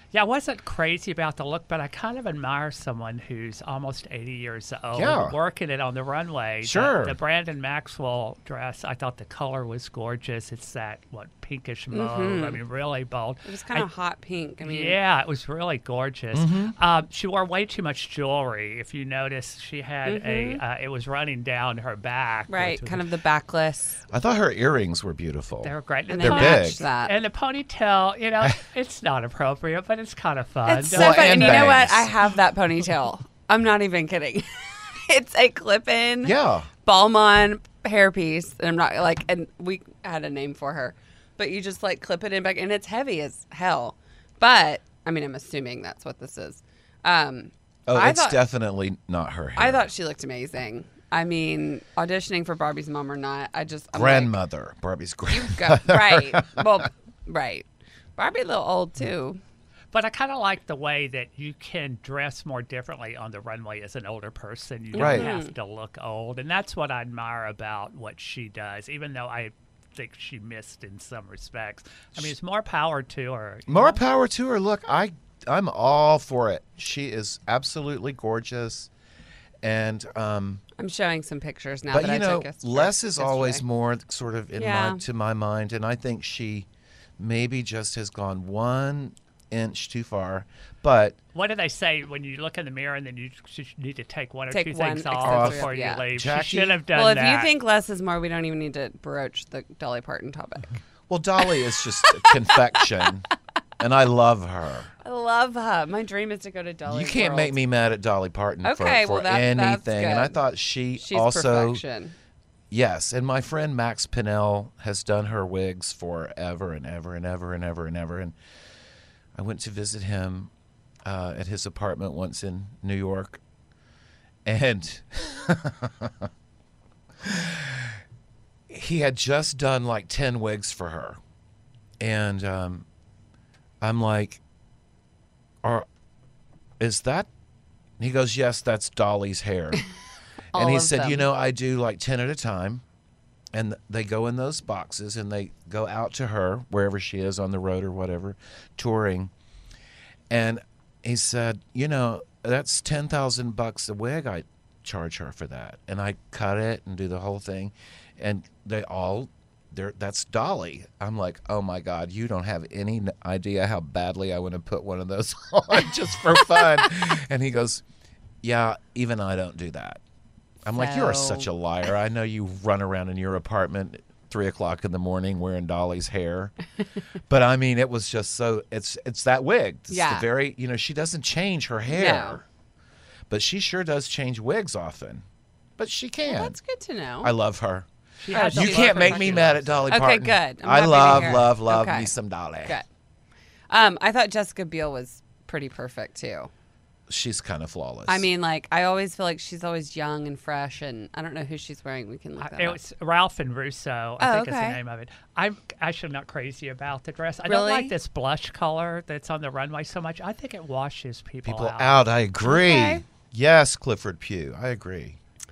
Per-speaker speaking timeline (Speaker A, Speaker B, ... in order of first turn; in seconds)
Speaker A: 0.1-13.9, 14.6-23.1, 25.6-31.8, 59.9-74.0, 91.3-97.5, 188.2-190.0, 191.0-191.5, 202.4-212.1
Speaker B: 4.9-5.4, 6.6-7.2, 16.3-16.8, 24.1-26.8, 30.9-32.1, 36.2-36.7, 47.9-49.9, 53.9-56.7, 65.0-65.3, 73.7-78.9, 79.6-80.6, 81.9-86.7, 87.2-91.2, 95.2-96.8, 101.1-103.3, 103.8-104.9, 106.9-111.8, 112.7-118.3, 119.4-120.5, 121.0-123.4, 124.5-126.3, 127.2-127.9, 128.7-131.2, 132.0-132.9, 133.8-134.4, 136.8-137.3, 138.0-139.8, 140.5-142.8, 143.5-149.3, 150.3-167.8, 168.4-170.0, 170.7-176.5, 177.3-182.4, 183.3-185.2, 185.8-186.6, 187.2-192.8, 197.1-198.3, 211.4-215.2
Speaker C: 11.9-12.6, 13.4-15.0, 20.1-20.6, 22.5-24.0, 26.1-27.1, 30.7-48.4, 49.6-54.4, 55.3-59.4, 64.9-65.5, 80.8-83.6, 84.6-85.0, 94.5-96.0, 96.9-100.8, 101.5-102.9, 105.0-107.6, 108.6-110.4, 111.0-112.2, 140.5-141.3, 170.7-171.5, 179.9-180.3, 181.9-182.4, 186.2-187.3, 188.3-192.9, 193.7-196.5, 198.1-202.8, 204.2-204.8, 207.5-207.9, 212.4-213.0